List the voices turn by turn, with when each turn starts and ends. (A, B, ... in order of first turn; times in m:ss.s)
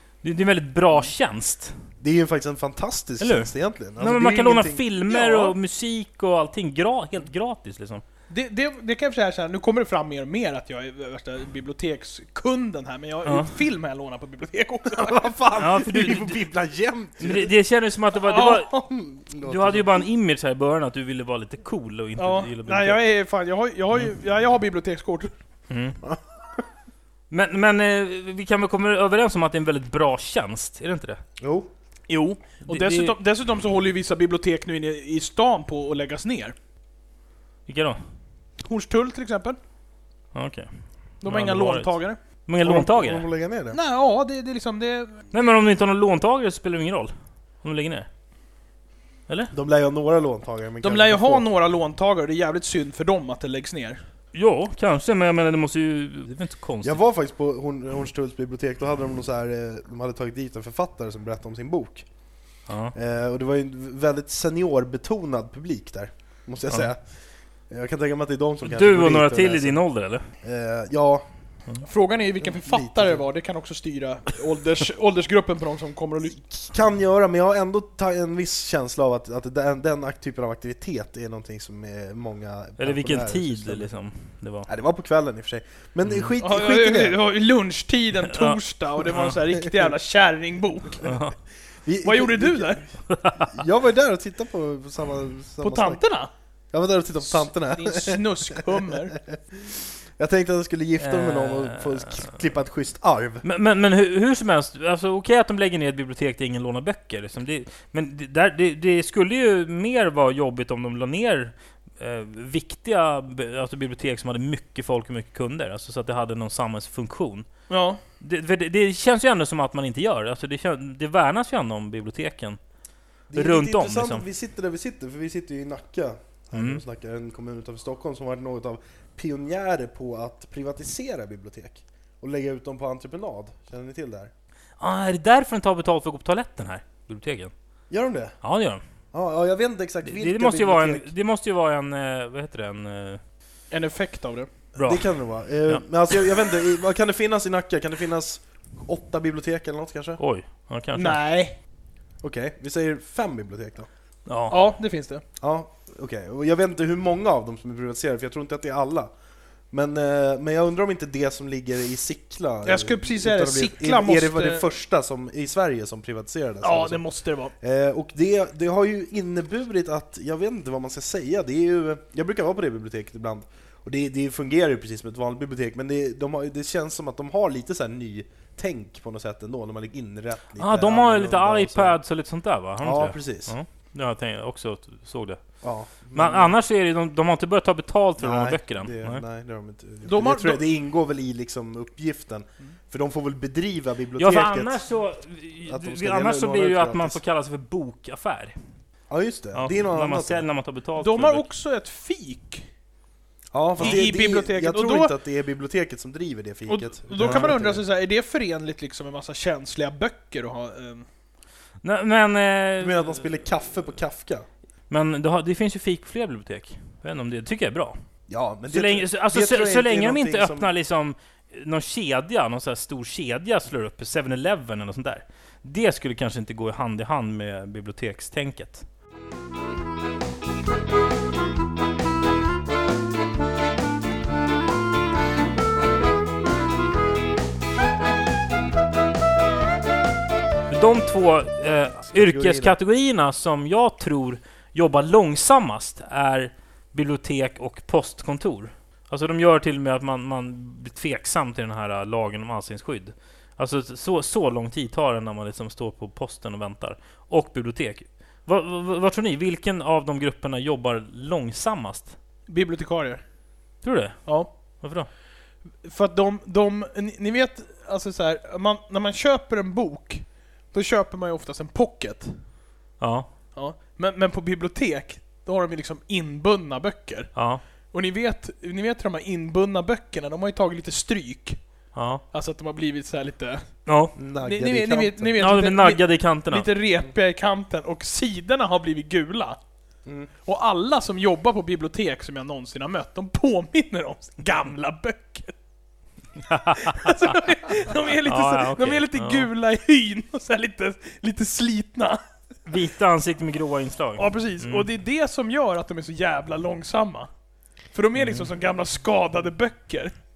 0:00.2-0:01.7 A
0:02.0-0:05.5 B
0:03.2-0:08.0 A
0:08.3-0:15.3 C
0:13.2-0:13.5 A
0:14.9-0:17.5 B
0:15.6-0:16.4 A
0:17.2-0:18.7 A
0:18.2-0:18.9 C
0:18.9-0:20.0 B
0:19.4-0:23.0 A
0:22.2-0:25.3 C
0:25.7-0:26.0 A
0:27.3-0:31.2 A
0:31.4-0:31.7 B
0:32.1-0:36.5 C
0:32.6-0:33.1 A
0:37.7-0:38.0 A
0:38.6-0:39.6 C
0:40.3-0:40.7 A
0:41.2-0:42.2 C
0:41.2-0:41.9 A
0:42.4-0:43.2 A
0:42.6-0:43.8 B
0:43.7-0:45.2 C
0:45.3-0:48.1 A
0:49.3-0:49.5 A
0:49.5-0:51.4 B
0:50.8-0:54.0 C
0:54.3-0:57.0 A
0:56.8-1:02.0 B
1:02.7-1:02.9 A
1:02.9-1:07.1 B
1:07.7-1:09.8 B
1:08.6-1:10.3 A
1:10.4-1:11.2 B
1:11.8-1:16.4 C
1:12.4-1:13.2 B
1:16.5-1:23.9 B
1:22.8-1:24.7 A
1:24.7-1:27.2 B
1:26.4-1:31.0 C
1:28.2-1:29.4 A
1:31.0-1:31.4 A
1:31.8-1:32.8 B
1:32.0-1:32.8 C
1:33.1-1:33.6 A
1:33.4-1:36.0 B
1:35.6-1:36.3 C
1:36.7-1:43.4 B
1:37.2-1:39.2 C
1:41.0-1:42.3 A
1:43.4-1:57.5 A
1:57.7-1:58.0 C
1:58.2-2:02.6 A
2:03.3-2:14.3 B
2:03.3-2:04.2 A
2:06.5-2:06.8 A
2:14.8-2:17.5 A
2:17.9-2:18.4 B
2:18.4-2:18.8 A
2:19.1-2:21.1 B
2:20.0-2:23.2 A
2:23.7-2:24.5 C
2:24.8-2:25.0 A
2:24.8-2:30.2 B
2:30.2-2:31.2 A
2:30.9-2:31.6 C
2:32.2-2:33.9 B
2:34.3-2:34.6 A
2:34.5-2:35.2 C
2:35.4-2:39.1 B
2:39.7-2:47.0 B
2:42.6-2:44.6 C
2:46.6-2:47.5 C
2:47.6-3:02.0 B
3:00.6-3:05.4 A
3:02.8-3:03.5 B
3:05.6-3:06.5 B
3:06.1-3:09.2 A
3:08.2-3:14.8 B
3:10.0-3:10.6 C
3:14.2-3:18.5 A
3:15.7-3:17.2 B
3:19.1-3:20.4 B
3:19.5-3:21.4 A
3:21.0-3:22.6 C
3:23.5-3:27.8 B
3:23.8-3:25.1 C
3:26.7-3:31.1 C
3:27.2-3:27.5 A
3:31.8-3:33.2 A
3:32.8-3:34.5 B
3:34.9-3:38.0 A
3:38.3-3:40.7 B
3:38.7-3:48.8 A
4:00.7-4:22.2 A
4:02.0-4:02.8 B
4:22.5-4:23.2 C
4:23.8-4:24.2 A
4:24.8-4:25.1 A
4:25.8-4:32.4 C
4:33.0-4:33.3 A
4:33.6-4:37.4 C
4:37.3-4:37.6 A
4:37.9-4:41.6 C
4:41.9-4:42.2 A
4:42.3-4:43.6 C
4:43.9-4:44.1 A
4:44.2-4:45.5 B
4:44.4-4:49.6 C
4:45.4-4:46.7 A
4:50.4-4:55.5 C
4:56.4-4:57.3 A
4:56.8-5:02.2 C
4:58.2-4:59.5 A
5:02.6-5:04.8 A
5:04.2-5:07.3 C
5:07.9-5:10.1 C
5:08.2-5:08.5 A